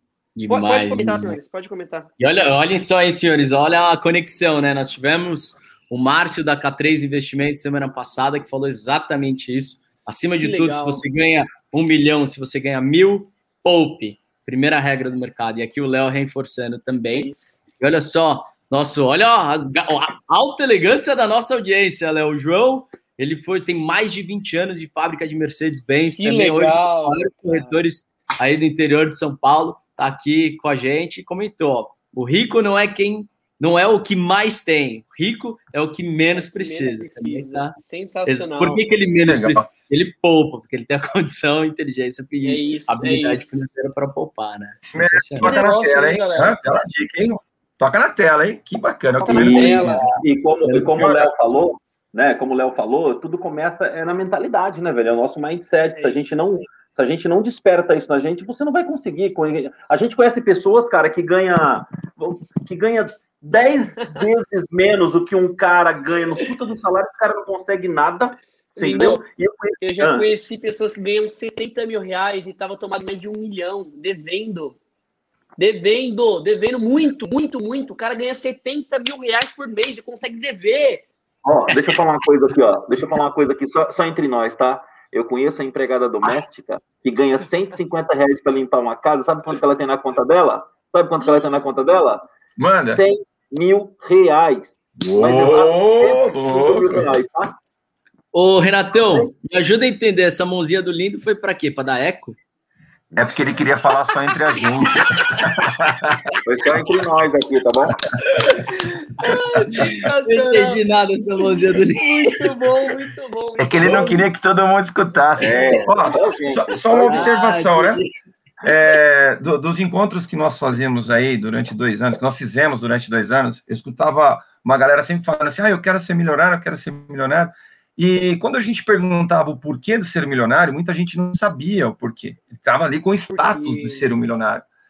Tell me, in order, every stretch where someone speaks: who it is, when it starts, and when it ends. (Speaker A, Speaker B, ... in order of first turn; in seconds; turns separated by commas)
Speaker A: 0.4-1.4, Speaker B: 0.5-2.1, Speaker A: 2.2-45.6, Speaker B: 10.4-11.0, Speaker B: 17.1-17.6, Speaker B: 26.1-27.8, Speaker B: 36.3-38.8, Speaker C: 39.2-39.7, Speaker B: 42.4-43.6, Speaker C: 44.9-50.1, Speaker B: 45.4-46.6, Speaker B: 49.2-50.1, Speaker D: 49.2-70.3, Speaker C: 50.7-51.2, Speaker B: 55.9-56.4, Speaker B: 68.8-69.2, Speaker B: 69.8-74.8, Speaker B: 75.6-81.0, Speaker D: 81.5-92.3, Speaker C: 92.6-93.0, Speaker D: 92.8-97.6, Speaker C: 95.0-97.1, Speaker A: 98.3-102.4, Speaker C: 103.1-106.3, Speaker D: 106.5-108.0, Speaker B: 108.5-110.8, Speaker A: 109.8-112.5, Speaker B: 111.5-114.3, Speaker C: 113.6-118.0, Speaker D: 115.4-117.3, Speaker A: 117.0-118.1, Speaker C: 118.6-134.7, Speaker B: 133.3-134.1